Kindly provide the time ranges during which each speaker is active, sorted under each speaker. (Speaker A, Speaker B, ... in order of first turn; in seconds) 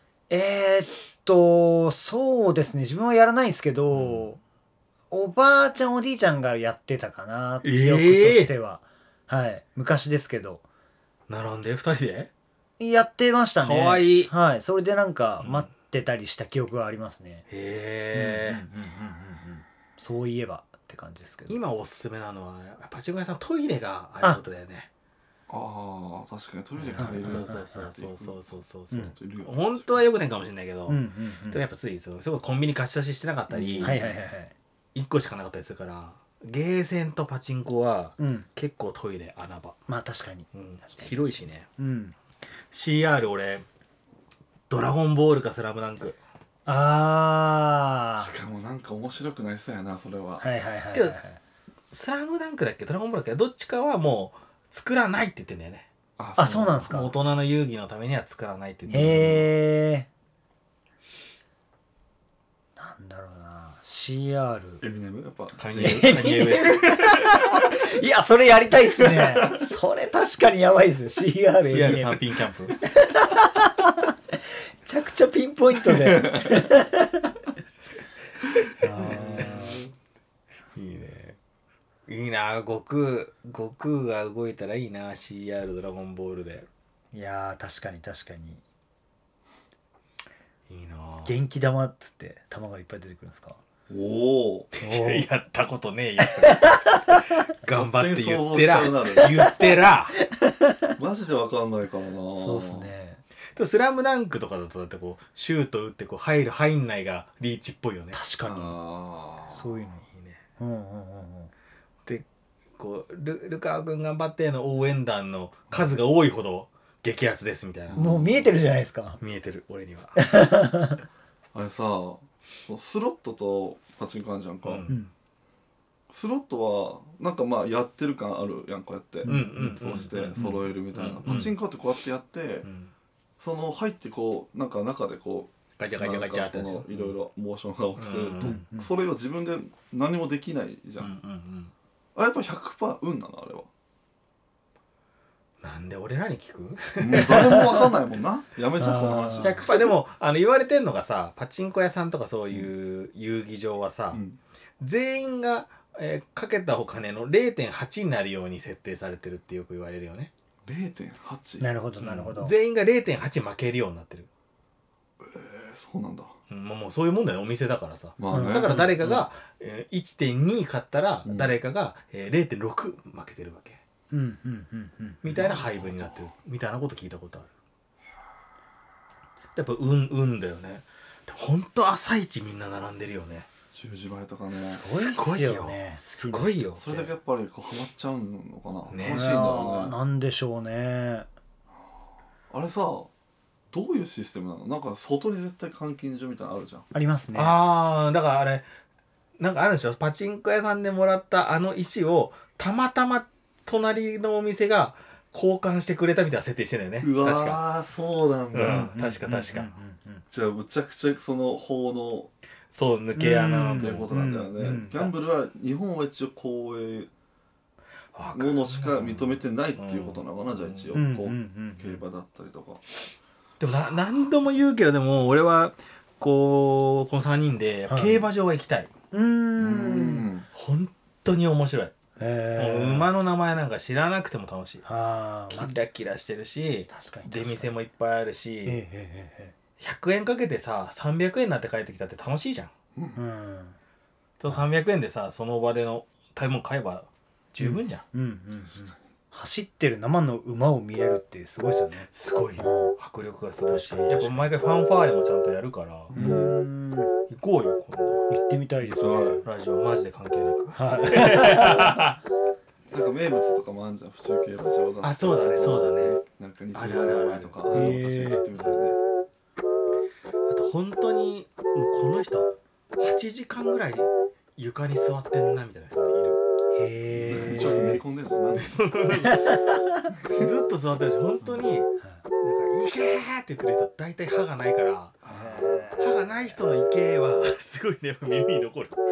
Speaker A: 0.3-4.4, 5.1-10.6, 12.8-17.4, 18.1-21.6, 26.9-27.9, 30.9-31.6, 33.8-34.5, 38.2-38.5, 39.9-41.1, 41.8-42.1, 46.6-48.3, 50.4-51.4, 56.4-57.1, 58.9-60.1, 62.8-64.8, 65.8-72.3, 72.8-74.1, 74.8-77.4, 78.8-79.8, 87.1-88.6, 91.2-93.6, 94.8-95.3, 96.4-97.2, 99.2-99.7, 100.4-100.8, 102.4-103.2, 108.1-108.8, 109.5-110.0, 110.6-111.5, 117.9-119.2, 120.2-121.0, 129.2-130.0, 138.4-138.9, 147.3-147.9, 148.8-149.7, 161.6-162.5, 168.3-169.0, 174.1-175.4, 184.7-186.6, 189.0-191.3, 196.9-197.6, 208.6-210.2, 213.1-215.1, 220.9-222.0, 227.9-228.2, 229.1-230.3, 232.2-233.1, 234.8-235.8, 236.9-237.7, 238.6-239.5, 243.2-243.8, 247.6-252.9, 253.7-254.4, 256.1-257.1, 258.3-259.4, 260.7-262.0, 267.7-268.4, 276.7-278.0, 279.2-280.1, 285.3-286.5
Speaker B: 3.9-4.3, 7.6-8.5, 11.3-12.3, 13.6-14.3, 15.4-15.7, 17.5-18.6, 21.5-24.9, 26.9-34.0, 34.9-39.8, 40.5-41.7, 42.7-43.6, 44.7-46.2, 50.9-51.2, 51.9-55.9, 56.9-59.5, 65.6-67.2, 71.6-72.8, 78.9-79.7, 80.7-81.4, 82.1-86.7, 90.7-91.3, 94.7-96.9, 97.6-100.2, 103.5-108.2, 110.1-110.4, 112.8-118.0, 119.2-120.2, 124.6-125.0, 129.2-131.5, 132.6-132.9, 135.8-137.2, 138.0-138.6, 141.0-141.7, 145.6-147.6, 149.4-154.2, 154.8-160.3, 162.0-164.3, 166.5-173.8, 175.2-177.5, 179.5-183.5, 184.8-187.1, 188.9-189.3, 197.3-198.7, 199.4-207.6, 208.5-209.8, 212.7-214.1, 218.1-221.0, 223.6-228.9, 230.5-231.9, 232.6-234.8, 235.5-238.8, 239.8-242.7, 244.4-248.0, 252.1-256.4, 257.3-258.3, 259.4-262.2, 265.0-266.2, 266.7-267.5, 270.5-276.4, 278.6-279.8, 280.3-285.1, 286.0-289.0
Speaker C: 25.5-28.4, 28.9-30.0, 33.5-34.2, 48.2-50.5, 56.2-57.0, 58.9-59.4, 64.8-66.2, 69.1-69.7, 75.9-76.6, 79.0-79.8, 93.9-94.7, 97.7-99.5, 101.0-102.9, 108.4-109.7, 117.9-118.5, 121.5-124.9, 126.1-132.7, 133.4-141.1, 142.1-143.7, 147.0-149.9, 154.1-154.4, 160.6-161.7, 165.2-166.3, 168.2-169.2, 171.2-171.6, 175.3-176.1, 183.7-184.9, 186.8-189.9, 192.5-193.1, 193.7-196.8, 207.0-208.9, 210.3-212.3, 213.7-217.1, 218.3-222.8, 229.6-230.5, 256.1-256.6, 258.9-259.4, 262.9-269.0, 277.1-278.8, 285.2-285.8